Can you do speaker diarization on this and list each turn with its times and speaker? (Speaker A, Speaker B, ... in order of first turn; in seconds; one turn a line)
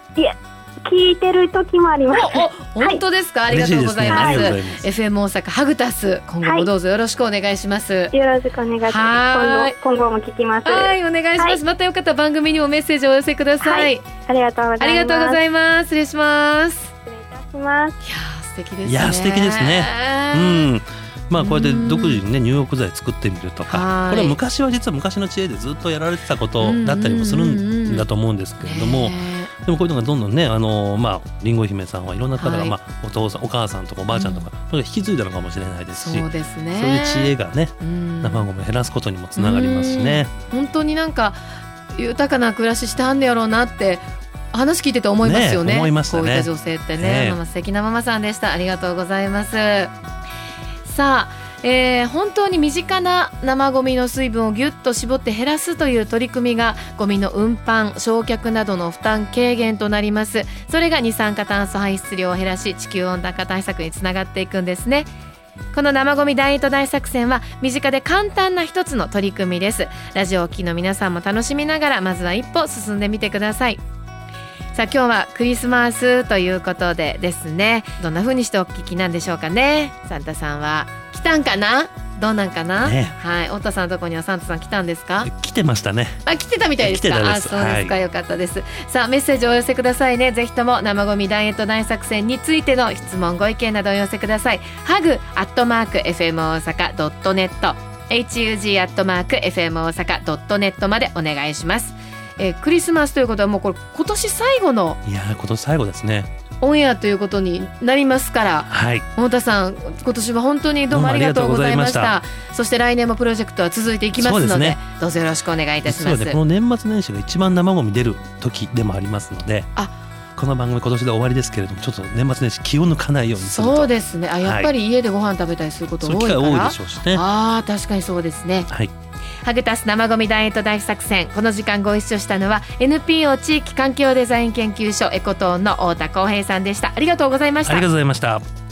Speaker A: 0.2-3.0
Speaker B: 2.1-8.1
Speaker C: 3.5-4.8
Speaker A: 4.1-4.5
Speaker A: 6.4-6.7
Speaker A: 8.1-11.6
Speaker B: 8.9-9.8
Speaker B: 10.6-14.1
Speaker A: 13.6-15.4
Speaker B: 14.8-16.9
Speaker A: 17.1-18.0
Speaker B: 18.0-20.7
Speaker C: 18.9-40.3
Speaker B: 21.4-22.2
Speaker B: 23.7-24.4
Speaker B: 26.6-28.1
Speaker B: 28.6-29.5
Speaker B: 32.4-32.8
Speaker B: 34.1-34.5
Speaker B: 35.9-38.5
Speaker B: 39.3-41.4
Speaker B: 41.9-49.9
Speaker C: 45.2-47.4
Speaker B: 50.8-65.1
Speaker B: 65.7-73.8
Speaker B: 74.7-85.3
Speaker C: 82.8-83.1
Speaker C: 85.2-86.2
Speaker B: 86.2-105.0
Speaker C: 86.8-87.9
Speaker C: 105.0-106.3
Speaker B: 106.6-116.4
Speaker C: 108.7-109.0
Speaker C: 110.9-112.2
Speaker C: 114.2-114.8
Speaker C: 115.8-119.7
Speaker C: 120.3-123.9
Speaker B: 123.4-128.7
Speaker C: 124.4-124.7
Speaker C: 126.0-127.2
Speaker B: 129.4-137.9
Speaker C: 137.6-138.4